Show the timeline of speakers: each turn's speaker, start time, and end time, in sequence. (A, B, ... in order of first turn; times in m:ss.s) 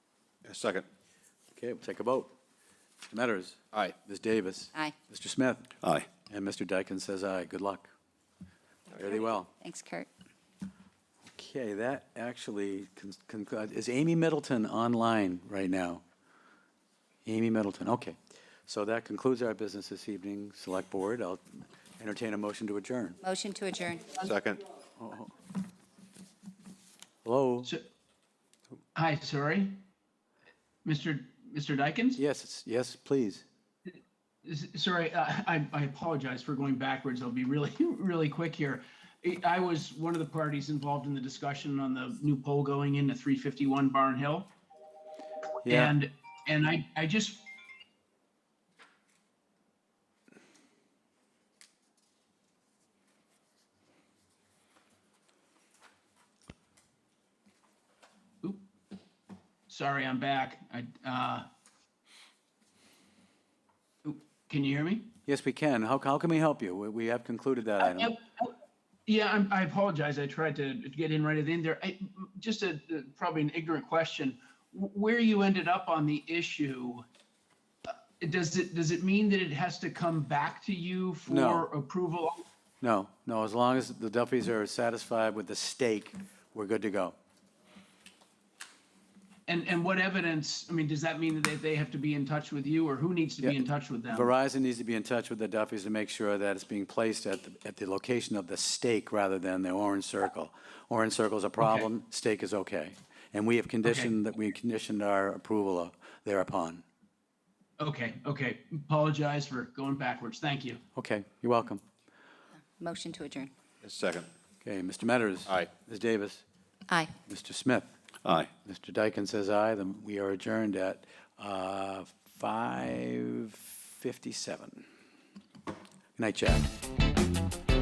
0:00.4-0:00.9 A
0:01.6-0:02.3 B
0:03.1-0:05.8 B
0:05.8-0:06.1 A
0:06.3-0:07.9 B
0:09.0-0:10.1 C
0:09.0-0:09.5 B
0:11.4-0:16.0 B
0:17.2-0:21.4 B
0:22.0-0:23.2 B
0:23.2-0:24.2 C
0:24.2-0:24.6 A
0:25.0-0:25.3 B
0:27.2-0:27.7 B
0:29.0-0:29.8 D
0:30.8-0:32.2 D
0:32.2-0:33.4 B
0:33.9-0:44.5 D
0:45.6-0:45.9 B
0:45.6-0:47.4 D
0:59.7-1:01.5 D
1:04.0-1:05.1 D
1:05.3-1:08.2 B
1:07.8-1:08.5 D
1:09.1-1:17.0 D
1:17.9-1:22.4 D
1:21.3-1:21.6 B
1:22.8-1:27.2 B
1:29.5-1:34.3 D
1:33.4-1:46.8 B
1:41.6-1:41.9 D
1:43.8-1:44.1 D
1:47.8-1:50.8 D
1:51.0-1:51.8 B
1:52.8-1:53.5 C
1:53.8-1:54.3 A
1:54.6-1:56.4 B
1:57.2-1:57.9 B
1:58.2-1:58.5 A
1:58.6-2:04.9 B
2:06.2-2:06.7 B